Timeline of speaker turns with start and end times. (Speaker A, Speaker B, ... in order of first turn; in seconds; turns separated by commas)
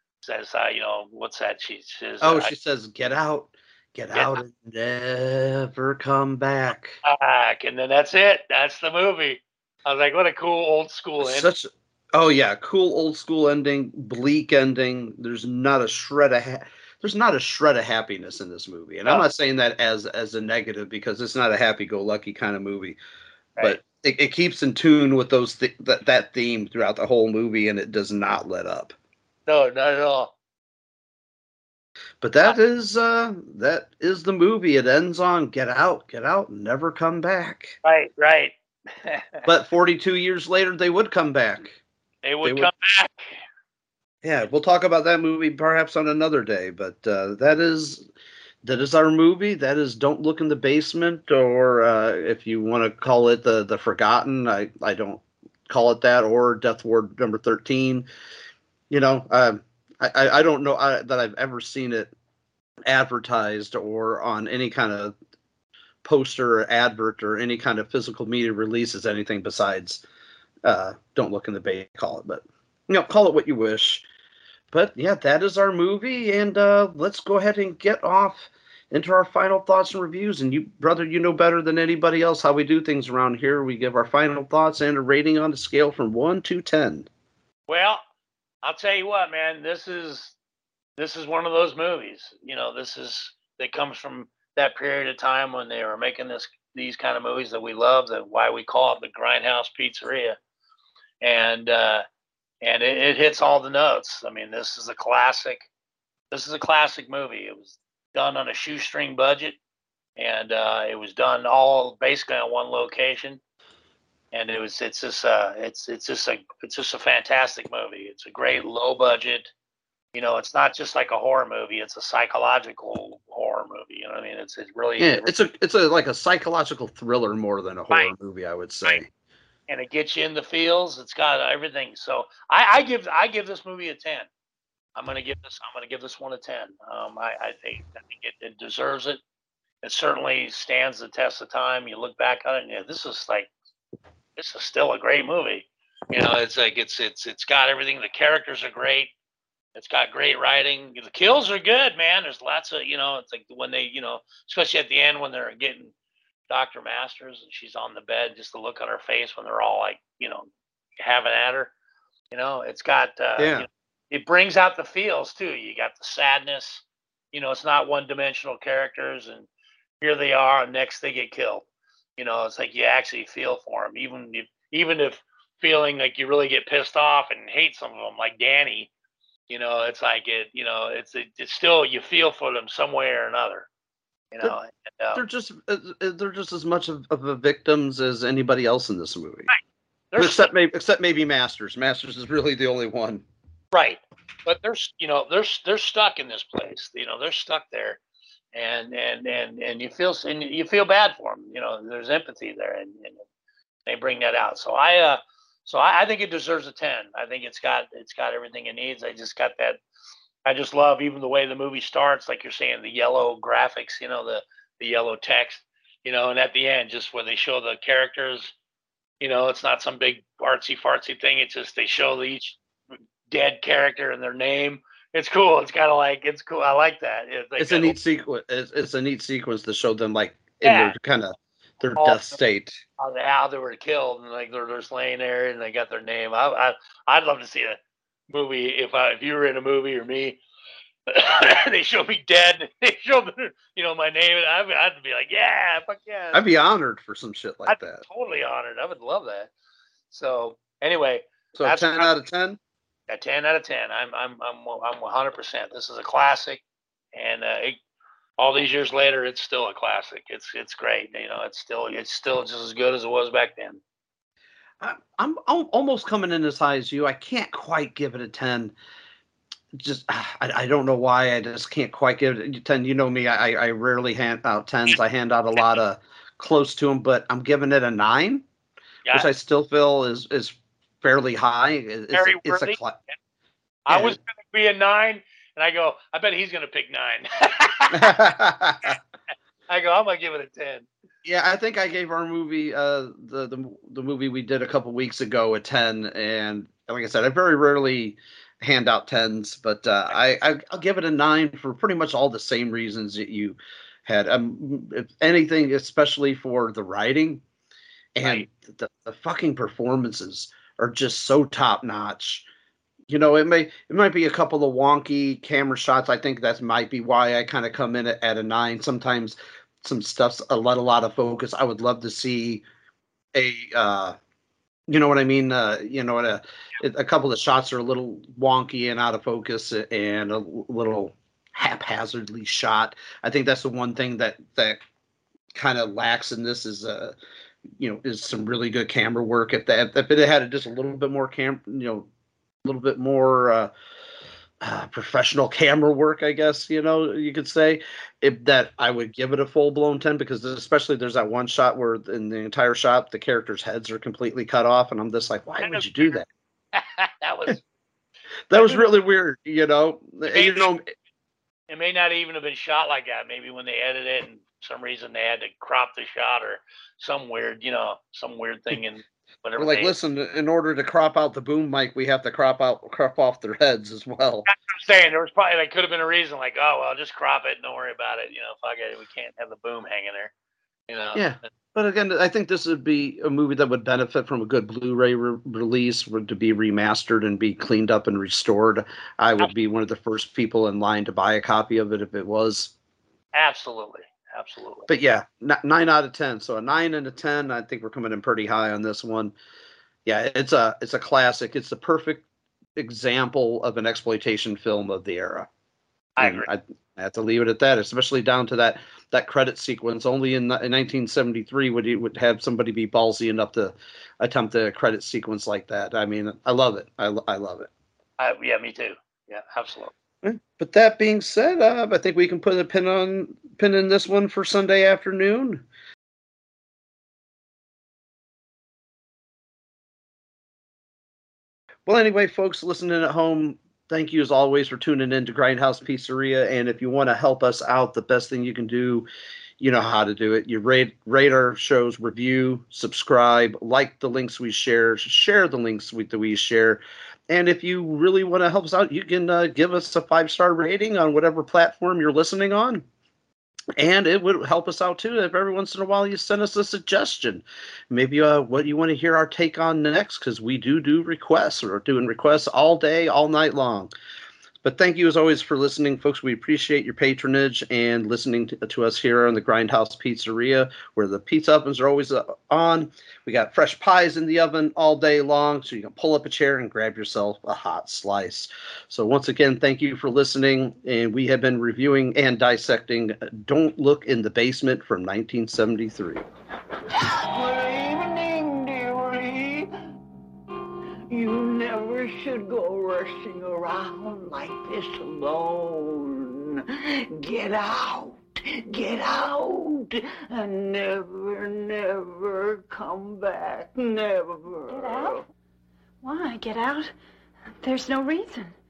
Speaker A: 0.2-2.5, Speaker B: 2.2-7.0, Speaker A: 7.0-11.5, Speaker B: 11.2-23.0, Speaker B: 23.6-28.9, Speaker A: 29.5-30.3, Speaker B: 32.2-37.8, Speaker A: 37.8-39.4, Speaker B: 39.4-41.8, Speaker A: 42.2-43.4, Speaker B: 42.4-42.7, Speaker B: 44.2-48.1, Speaker B: 48.6-58.0, Speaker B: 58.9-62.1, Speaker B: 62.9-65.1, Speaker B: 66.0-70.0, Speaker B: 70.6-74.0, Speaker B: 74.7-87.1, Speaker A: 87.7-88.0, Speaker A: 88.6-90.3, Speaker A: 91.0-100.4, Speaker A: 101.2-102.0, Speaker A: 102.6-105.6, Speaker A: 106.3-109.6, Speaker A: 110.2-113.4, Speaker A: 114.3-119.5, Speaker A: 120.1-125.3, Speaker B: 125.0-129.1, Speaker A: 129.7-134.3, Speaker A: 134.9-139.2, Speaker A: 139.8-143.5, Speaker A: 144.4-149.1, Speaker A: 149.8-155.9, Speaker A: 156.5-161.7, Speaker A: 162.3-169.5, Speaker B: 163.4-163.7, Speaker A: 170.0-171.6, Speaker A: 172.2-178.9, Speaker A: 179.5-183.7, Speaker A: 184.3-185.2, Speaker B: 185.1-189.5, Speaker A: 189.5-190.5, Speaker B: 190.2-193.2, Speaker A: 193.7-198.0, Speaker A: 198.5-203.2, Speaker A: 203.8-209.8, Speaker A: 210.4-218.5, Speaker A: 219.2-222.6, Speaker A: 223.3-228.0, Speaker B: 227.6-232.8, Speaker A: 230.6-230.9, Speaker A: 232.0-232.4, Speaker A: 233.0-237.8, Speaker A: 238.3-240.4, Speaker A: 241.1-246.4, Speaker B: 246.3-248.0, Speaker A: 247.7-249.5, Speaker A: 250.1-252.2, Speaker B: 251.5-252.6, Speaker A: 253.1-256.6, Speaker A: 257.1-257.8, Speaker A: 258.4-263.8, Speaker B: 264.8-268.7, Speaker B: 269.7-278.4, Speaker B: 279.1-283.0, Speaker A: 282.1-282.8, Speaker A: 283.9-288.2, Speaker B: 283.9-284.2, Speaker B: 287.9-289.0, Speaker A: 289.7-290.9, Speaker B: 291.2-307.4, Speaker B: 308.1-312.4, Speaker B: 313.1-322.6, Speaker B: 323.3-324.2, Speaker B: 324.9-334.8, Speaker B: 335.5-337.1, Speaker B: 337.8-342.1, Speaker B: 342.6-343.7, Speaker B: 344.6-356.3, Speaker A: 355.6-356.2, Speaker A: 356.7-357.6, Speaker B: 358.5-360.9, Speaker A: 358.5-358.9, Speaker A: 360.2-360.7, Speaker A: 361.7-369.9, Speaker B: 369.6-374.5, Speaker A: 374.4-380.3, Speaker A: 380.9-381.3, Speaker B: 381.1-392.7, Speaker A: 393.3-394.9, Speaker B: 394.9-399.3, Speaker B: 400.1-402.2, Speaker B: 402.8-405.5, Speaker A: 406.2-406.5, Speaker B: 406.2-417.7, Speaker A: 418.2-419.9, Speaker B: 420.2-425.6, Speaker B: 431.9-439.1, Speaker B: 439.6-452.8, Speaker B: 453.8-463.9, Speaker B: 464.6-486.3, Speaker C: 487.2-489.6, Speaker C: 491.1-505.2, Speaker D: 504.7-505.2, Speaker D: 506.0-506.9, Speaker D: 507.6-508.5